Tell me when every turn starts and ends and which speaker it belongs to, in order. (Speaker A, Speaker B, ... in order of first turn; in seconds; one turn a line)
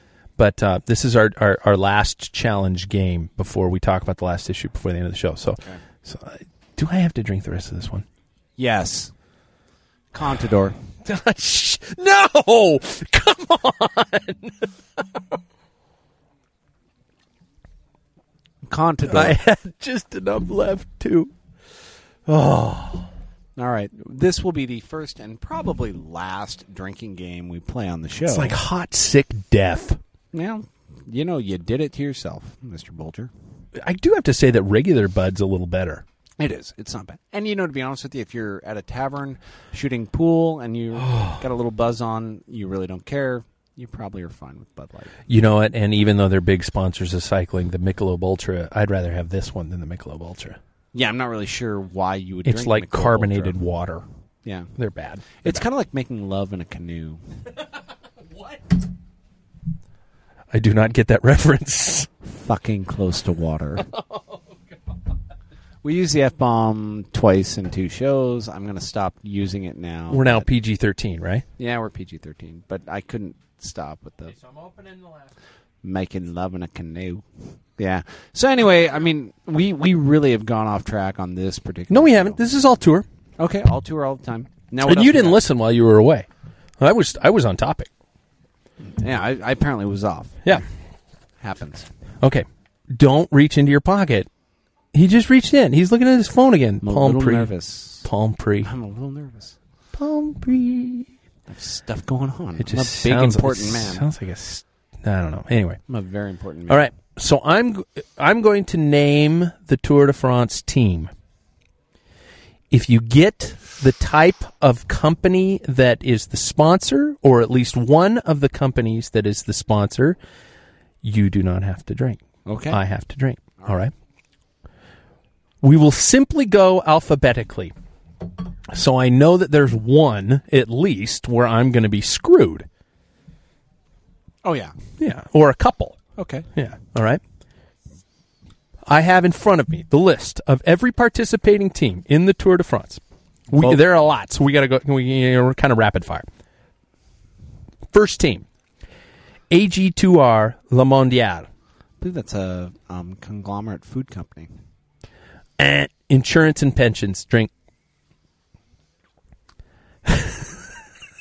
Speaker A: 0.4-8.0
Speaker B: 8.6-9.1
Speaker B: 10.1-10.8
Speaker A: 11.0-15.2
Speaker B: 18.7-19.4
Speaker A: 19.1-21.3
Speaker A: 22.3-23.1
Speaker B: 23.6-28.6
Speaker A: 28.3-30.0
Speaker B: 30.3-33.3
Speaker A: 33.8-36.0
Speaker B: 36.4-45.1
Speaker A: 45.3-50.6
Speaker B: 50.9-53.6
Speaker A: 52.5-54.0
Speaker B: 54.4-54.7
Speaker A: 54.8-55.7
Speaker B: 55.4-57.2
Speaker A: 60.5-62.1
Speaker B: 62.2-63.9
Speaker A: 63.8-64.6
Speaker B: 65.8-70.5
Speaker A: 70.1-71.4
Speaker B: 71.6-74.3
Speaker A: 74.4-75.3
Speaker B: 75.8-77.2
Speaker B: 77.8-82.4
Speaker A: 81.9-83.1
Speaker B: 83.4-85.4
Speaker A: 84.8-86.3
Speaker A: 86.8-87.9
Speaker B: 88.8-90.6
Speaker B: 91.4-91.9
Speaker A: 92.2-94.3
Speaker A: 94.9-97.5
Speaker B: 96.8-98.1
Speaker A: 98.0-98.7
Speaker B: 98.6-99.5
Speaker A: 99.9-101.1
Speaker B: 101.5-104.0
Speaker A: 102.6-105.8
Speaker B: 105.9-106.9
Speaker A: 106.7-111.1
Speaker A: 112.7-120.2
Speaker A: 121.0-123.9
Speaker B: 122.5-122.8
Speaker A: 125.6-127.7
Speaker A: 128.7-132.7
Speaker B: 134.4-134.7
Speaker A: 135.0-136.0
Speaker B: 136.2-136.5
Speaker A: 136.6-137.2
Speaker A: 138.9-146.3
Speaker B: 143.5-143.8
Speaker A: 147.9-148.4
Speaker A: 149.5-151.5
Speaker B: 152.0-154.5
Speaker A: 155.6-157.5
Speaker A: 160.1-160.5